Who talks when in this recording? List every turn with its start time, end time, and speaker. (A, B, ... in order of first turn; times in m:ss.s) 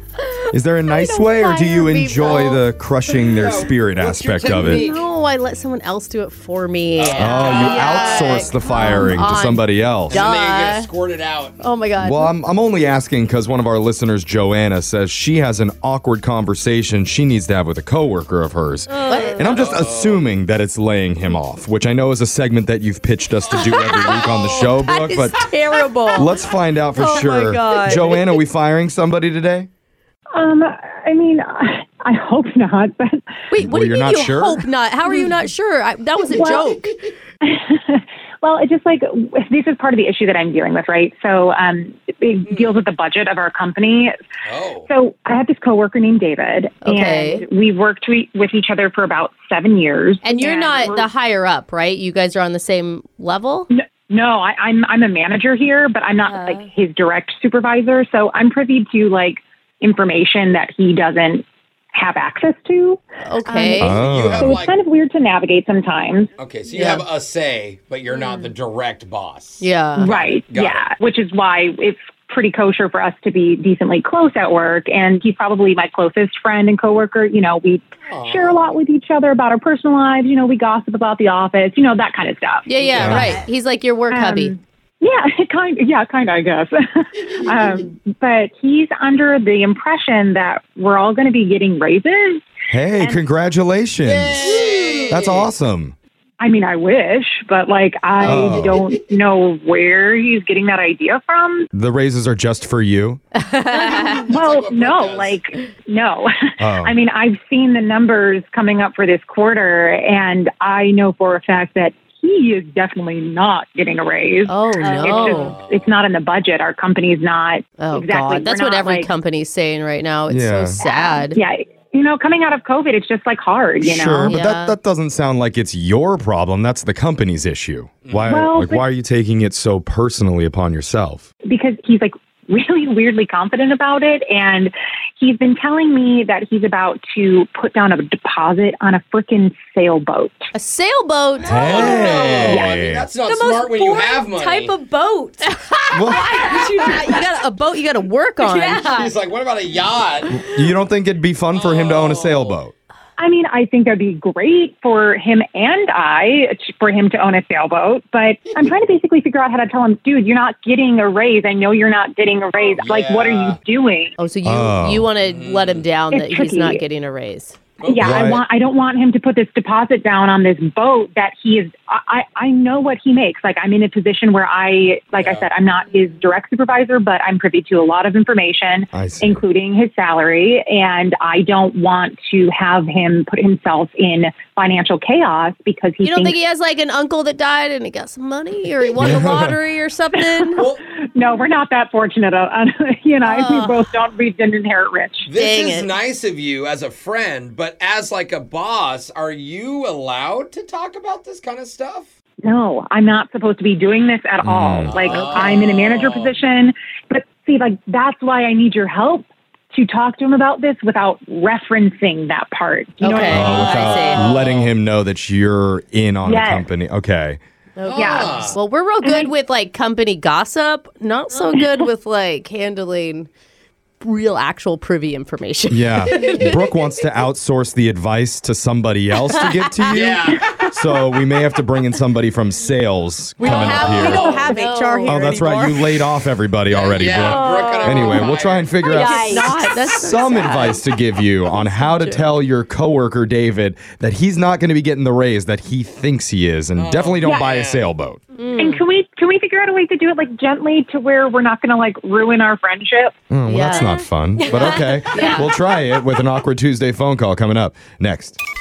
0:00.5-0:04.9 A
0:00.9-0:02.6 B
0:03.4-0:05.1 C
0:04.5-0:10.9 B
0:07.0-0:09.0 C
0:07.2-0:10.2 A
0:10.1-0:11.7 C
0:11.6-0:12.3 B
0:12.0-0:25.4 A
0:18.9-0:19.3 D
0:19.1-0:19.5 B
0:19.4-0:20.3 C
0:23.4-0:24.8 C
0:24.2-0:26.4 B
0:26.2-0:29.7 A
0:26.9-0:28.3 B
0:30.3-0:33.3 E
0:33.5-0:36.9 B
0:33.6-0:34.7 A
0:36.2-0:36.8 E
0:37.4-0:44.1 E
0:42.5-0:42.8 C
0:44.5-0:44.9 C
0:44.9-0:51.0 E
0:46.8-0:47.4 B
0:50.2-0:53.7 B
0:50.5-0:50.8 D
0:53.7-1:03.8 E
0:56.3-0:56.7 D
1:03.2-1:04.0 B
1:03.8-1:04.6 A
1:03.8-1:04.8 C
1:04.4-1:06.3 E
1:06.4-1:10.9 C
1:06.7-1:07.0 B
1:09.6-1:10.1 B
1:10.0-1:23.0 E
1:18.1-1:18.7 C
1:22.7-1:24.6 B
1:22.9-1:23.2 C
1:23.0-1:23.3 A
1:23.2-1:23.4 D
1:24.1-1:32.5 E
1:32.7-1:34.5 A
1:34.0-1:35.5 C
1:35.1-1:36.0 A
1:36.4-1:41.7 E
1:38.2-1:38.8 A
1:41.7-1:43.2 A
1:43.4-1:44.2 B
1:43.7-1:59.1 E
1:44.0-1:45.4 C
1:46.6-1:47.0 A
1:54.5-1:55.5 B
1:54.8-1:55.5 D
1:55.2-1:56.0 C
1:57.8-2:01.4 B
2:00.3-2:00.8 A
2:00.8-2:04.4 E
2:03.8-2:11.3 A
2:04.2-2:04.8 B
2:08.0-2:08.3 C
2:08.3-2:08.8 E
2:11.5-2:20.4 E
2:20.5-2:22.7 B
2:21.4-2:23.1 A
2:21.5-2:24.8 C
2:21.6-2:22.5 D
2:23.2-2:25.5 D
2:25.4-2:28.8 B
2:25.9-2:26.3 A
2:26.0-2:27.3 D
2:28.4-2:29.1 D
2:28.9-2:30.5 C
2:30.4-2:32.7 A
2:31.5-2:32.6 C
2:33.2-2:44.2 E
2:42.8-2:43.6 C
2:44.2-2:47.6 B
2:44.4-2:45.1 A
2:45.2-2:45.9 C
2:46.1-2:46.8 E
2:47.8-2:48.4 C
2:47.8-3:06.4 E
2:48.0-2:48.4 A
2:55.1-2:55.5 C
2:58.9-2:59.4 A
3:06.0-3:10.6 B
3:09.0-3:09.6 A
3:10.6-3:10.8 C
3:11.2-3:15.3 E
3:13.2-3:13.8 B
3:15.3-3:22.1 C
3:15.4-3:15.9 B
3:22.4-3:34.1 E
3:24.4-3:25.2 A
3:24.8-3:26.3 C
3:33.0-3:34.4 B
3:33.3-3:37.4 A
3:34.1-3:34.7 C
3:36.2-3:36.7 E
3:37.8-3:43.3 B
3:37.8-3:38.6 C
3:38.0-3:38.5 E
3:39.0-3:39.3 E
3:44.0-3:46.6 B
3:45.7-3:54.3 A
3:49.9-3:50.6 C
3:53.4-3:55.6 D
3:53.4-3:56.0 B
3:53.4-3:54.6 C
3:55.0-4:08.2 A
3:56.7-3:58.8 C
3:57.2-3:59.7 D
3:58.9-4:00.8 B
4:01.5-4:02.3 B
4:06.8-4:07.9 C
4:07.2-4:07.5 E
4:08.4-4:08.8 B
4:08.6-4:13.1 E
4:13.3-4:18.4 A
4:13.5-4:14.0 B
4:13.8-4:15.3 D
4:15.1-4:15.5 B